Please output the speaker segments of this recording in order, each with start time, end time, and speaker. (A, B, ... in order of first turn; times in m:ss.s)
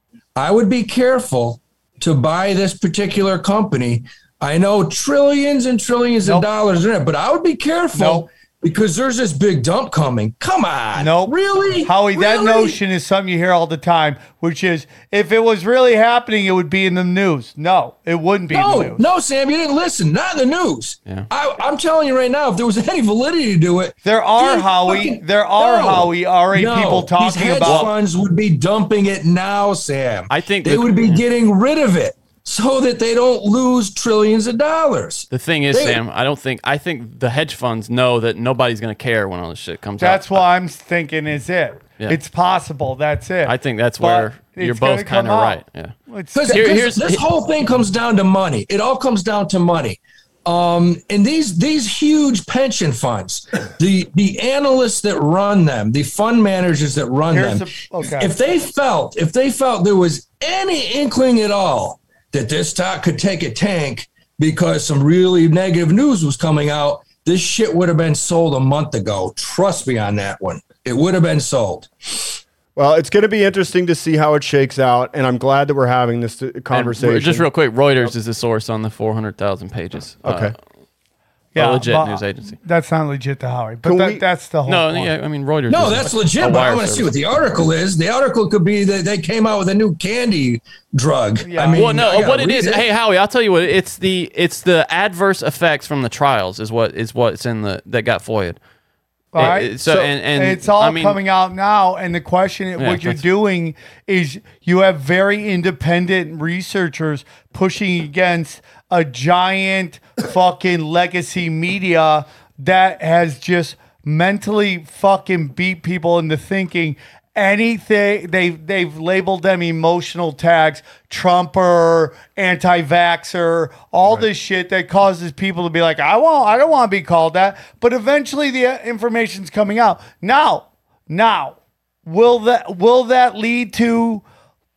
0:00.4-0:12.8 A
0:07.9-0:08.2 B
0:11.0-0:19.0 B
0:18.5-0:36.0 A
0:24.0-0:27.9 B
0:27.6-0:27.9 C
0:30.3-0:31.2 C
0:35.3-0:40.4 C
0:40.0-0:46.8 B
0:43.4-0:45.9 C
0:46.3-1:12.4 A
0:46.5-0:47.2 C
0:57.3-0:58.3 B
1:12.8-1:17.5 D
1:16.7-1:20.5 C
1:20.2-1:20.5 D
1:21.5-1:25.1 B
1:21.6-1:22.6 C
1:23.8-1:24.2 D
1:24.6-1:27.1 C
1:25.7-1:32.8 A
1:31.4-1:31.9 B
1:31.8-1:38.6 C
1:39.3-2:14.2 B
1:39.4-1:41.2 C
1:42.8-1:43.2 C